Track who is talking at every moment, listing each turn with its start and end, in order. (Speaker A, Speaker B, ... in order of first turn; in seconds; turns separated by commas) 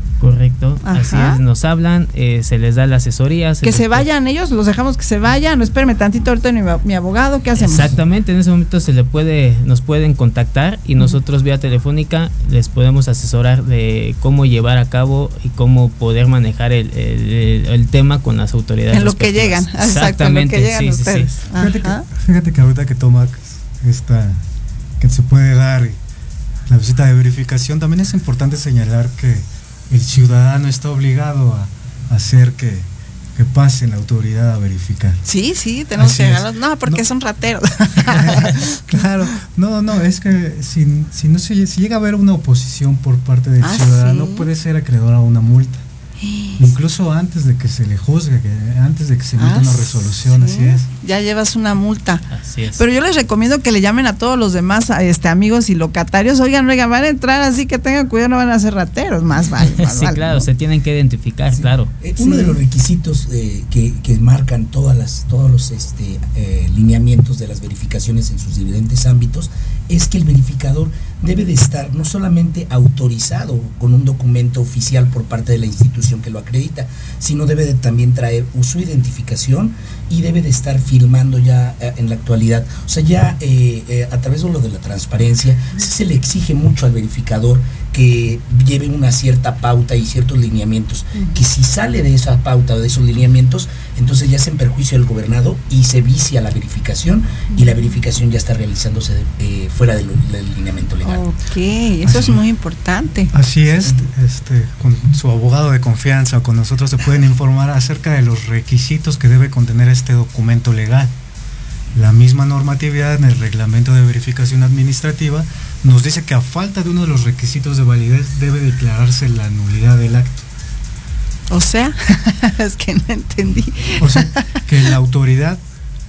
Speaker A: 0.2-4.1, Speaker B: 0.8-1.4, Speaker B: 3.6-8.0, Speaker A: 7.5-21.4, Speaker B: 18.9-22.0, Speaker C: 21.6-24.4, Speaker C: 25.0-26.0, Speaker C: 26.7-35.2, Speaker B: 35.2-38.6, Speaker C: 36.0-37.0, Speaker C: 38.1-45.8, Speaker B: 43.6-44.5, Speaker B: 46.2-46.6, Speaker C: 46.6-50.9, Speaker B: 49.4-52.2, Speaker A: 52.3-52.8, Speaker B: 52.8-60.5, Speaker A: 59.6-61.9, Speaker D: 61.5-101.2, Speaker B: 62.2-62.6, Speaker B: 101.0-103.3, Speaker C: 102.1-102.3, Speaker C: 103.3-111.1, Speaker C: 112.0-120.5, Speaker B: 121.5-124.5, Speaker C: 124.0-125.6